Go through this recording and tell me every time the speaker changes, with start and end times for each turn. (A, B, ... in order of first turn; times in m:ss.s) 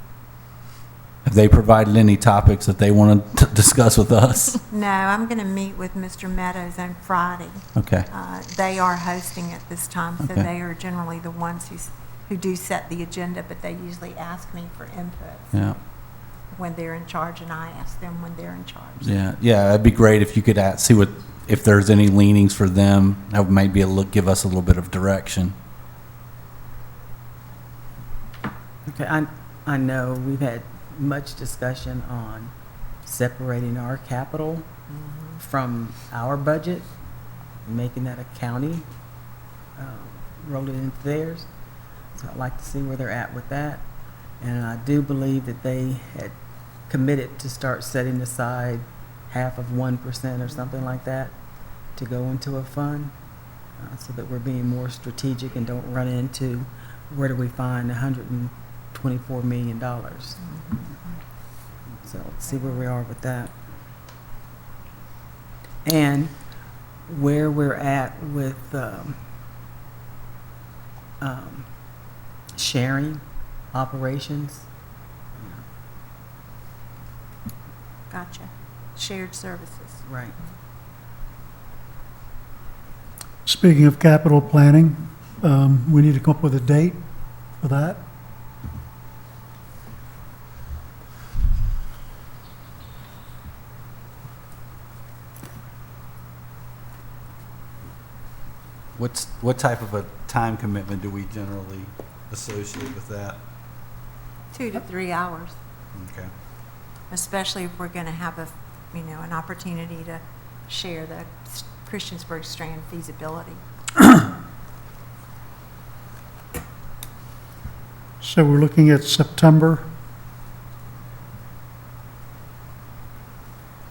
0:01.2-0:04.6 A
0:04.7-0:15.5 B
0:07.8-0:08.1 A
0:10.2-0:10.5 A
0:16.5-0:19.1 B
0:19.0-0:25.5 A
0:28.9-0:32.5 C
0:33.0-0:34.7 C
0:35.4-0:36.9 C
0:37.6-0:38.8 C
0:39.8-0:41.5 C
0:42.1-0:43.8 C
0:44.4-0:46.3 C
0:46.9-0:51.3 C
0:52.0-0:53.1 C
0:53.8-1:00.4 C
1:02.0-1:03.5 C
1:05.8-1:06.3 C
1:07.1-1:09.2 C
1:11.2-1:11.6 C
1:12.6-1:13.2 C
1:13.7-1:14.6 C
1:15.4-1:15.6 C
1:18.1-1:20.0 B
1:20.0-1:20.3 C
1:23.4-1:27.0 D
1:27.6-1:28.0 D
1:39.0-1:43.4 A
1:44.5-1:45.5 B
1:45.9-1:46.3 A
1:47.1-1:53.6 B
1:58.2-1:59.8 D